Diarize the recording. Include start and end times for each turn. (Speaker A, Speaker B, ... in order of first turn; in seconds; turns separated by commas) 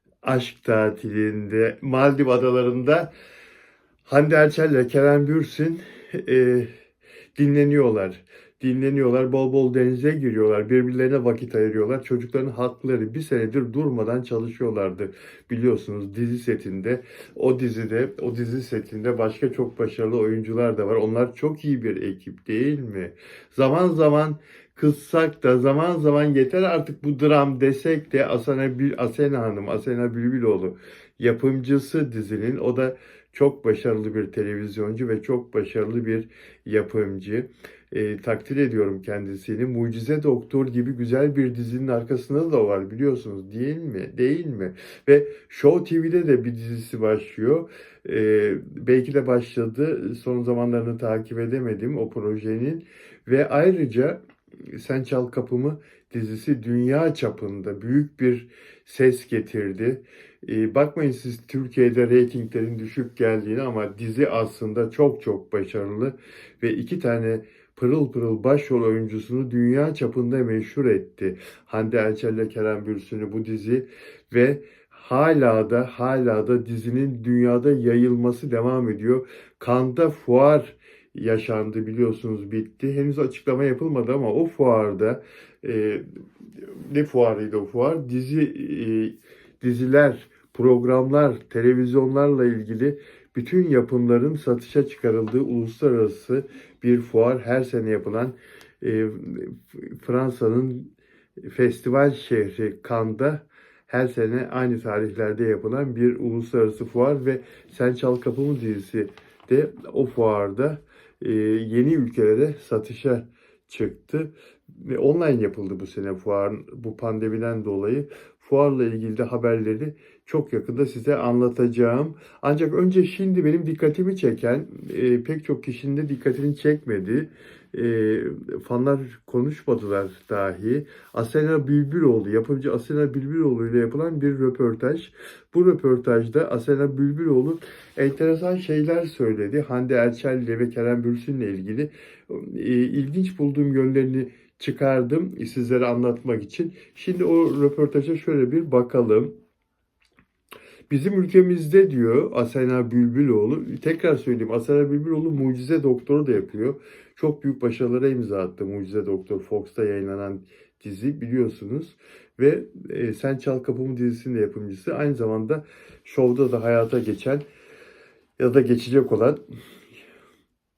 Speaker A: 0.2-3.1, Speaker A: 4.1-6.7, Speaker A: 7.3-54.2, Speaker A: 54.7-86.0, Speaker A: 86.7-149.3, Speaker A: 150.9-167.4, Speaker A: 168.4-169.4